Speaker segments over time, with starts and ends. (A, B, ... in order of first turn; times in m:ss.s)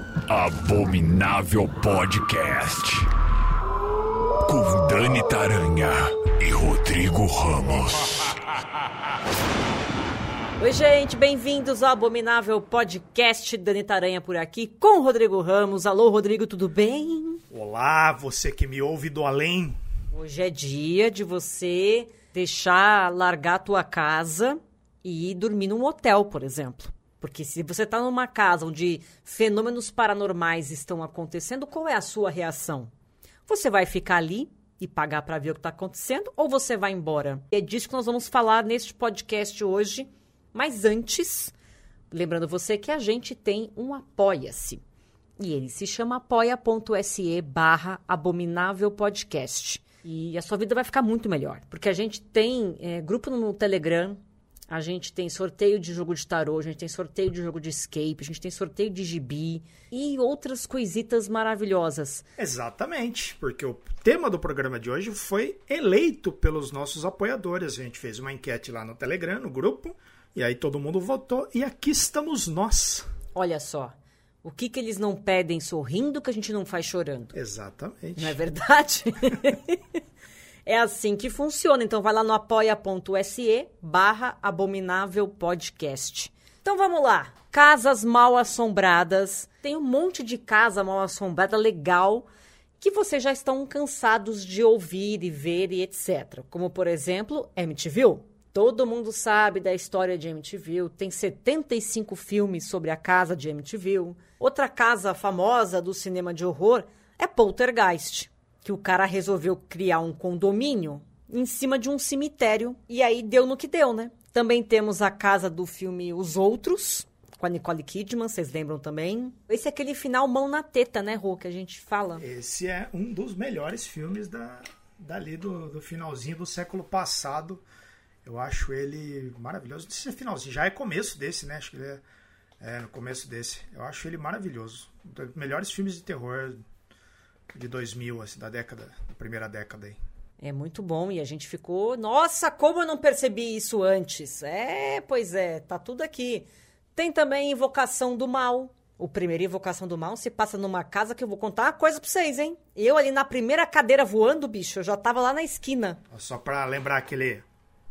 0:00.3-0:03.1 A
0:04.4-0:08.3 A
0:10.6-0:17.4 B
0:17.5-0:19.8 C
0:20.1-0:32.9 B
0:33.5-0:41.5 B
0:42.1-0:44.8 B
0:45.4-0:54.2 B
0:54.7-1:02.2 B
1:02.4-1:13.1 C
1:13.4-1:17.3 B
1:17.3-1:18.4 C
1:18.2-1:19.8 B
1:20.7-1:32.3 B
1:32.8-2:02.2 B
2:02.2-2:07.6 C
2:08.2-2:12.0 C
2:12.6-2:16.6 C
2:17.5-2:20.0 C
2:20.4-2:36.0 B
2:36.1-2:37.4 C